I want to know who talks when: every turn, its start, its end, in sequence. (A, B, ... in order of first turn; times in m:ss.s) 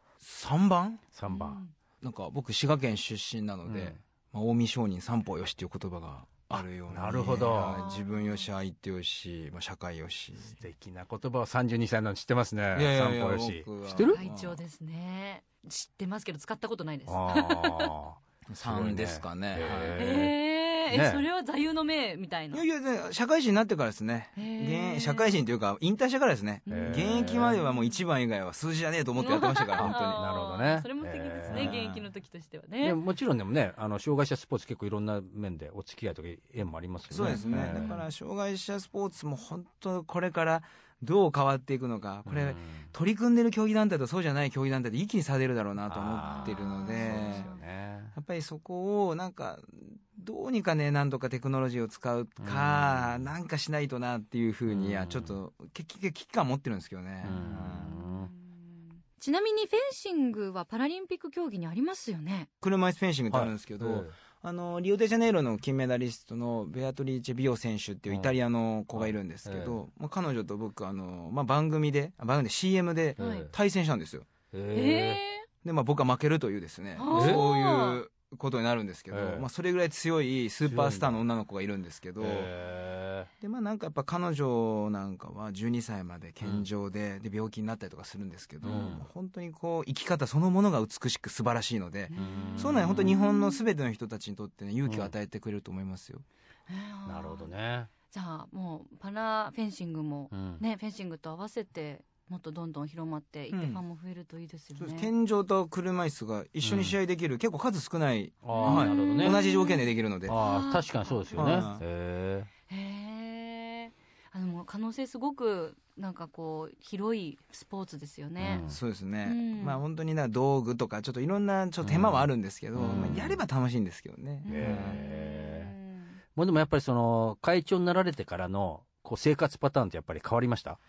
0:00.2-0:01.0 A
0:01.1-0:01.6 B
0:01.3-0:01.7 C
0:02.0-0:10.6 A
0:03.6-0:04.0 B
0:06.5-0:07.8 B
0:07.5-0:08.4 C
0:10.5-0:14.2 B
0:12.7-0:14.6 A
0:14.1-0:17.9 C
0:17.1-0:20.4 B
0:18.5-0:20.0 A
0:20.0-0:22.6 C
0:20.9-0:21.2 B
0:22.5-0:30.2 A
0:24.4-0:25.3 C
0:26.7-0:27.6 B
0:26.7-0:28.0 C
0:29.2-0:33.0 C
0:29.8-0:31.8 B
0:31.5-0:32.0 A
0:32.8-0:38.0 B
0:37.1-0:47.5 A
0:37.2-0:38.0 C
0:42.2-0:42.9 B
0:45.9-0:48.1 B
0:46.2-0:47.6 C
0:48.1-0:57.9 A
0:52.4-0:53.3 B
0:54.7-0:55.4 B
0:57.2-0:58.3 B
0:57.3-1:02.5 C
1:02.6-1:14.3 A
1:03.3-1:04.1 B
1:08.9-1:09.8 B
1:13.2-1:13.5 C
1:13.2-1:13.5 B
1:14.5-1:15.2 B
1:14.7-1:15.4 C
1:15.6-1:22.5 A
1:17.0-1:18.0 C
1:17.1-1:17.4 B
1:19.1-1:19.5 B
1:20.6-1:21.2 B
1:22.2-1:23.3 B
1:23.4-1:36.2 A
1:28.6-1:29.0 B
1:28.6-1:28.9 C
1:32.1-1:33.6 C
1:32.1-1:33.2 B
1:34.9-1:35.1 B
1:36.7-1:37.5 C
1:37.1-1:37.9 B
1:38.1-1:45.1 C
1:40.3-1:40.6 B
1:43.5-1:43.8 A
1:44.8-1:50.4 A
1:46.6-1:47.0 B
1:48.4-1:49.4 B
1:48.5-1:51.7 C
1:50.3-1:52.5 B
1:51.3-1:51.8 A
1:52.7-1:58.6 C
1:58.4-1:58.8 B
1:58.7-2:05.0 A
1:59.2-1:59.8 C
2:01.8-2:03.4 B
2:04.4-2:06.2 C
2:04.4-2:05.7 B
2:06.4-2:10.8 B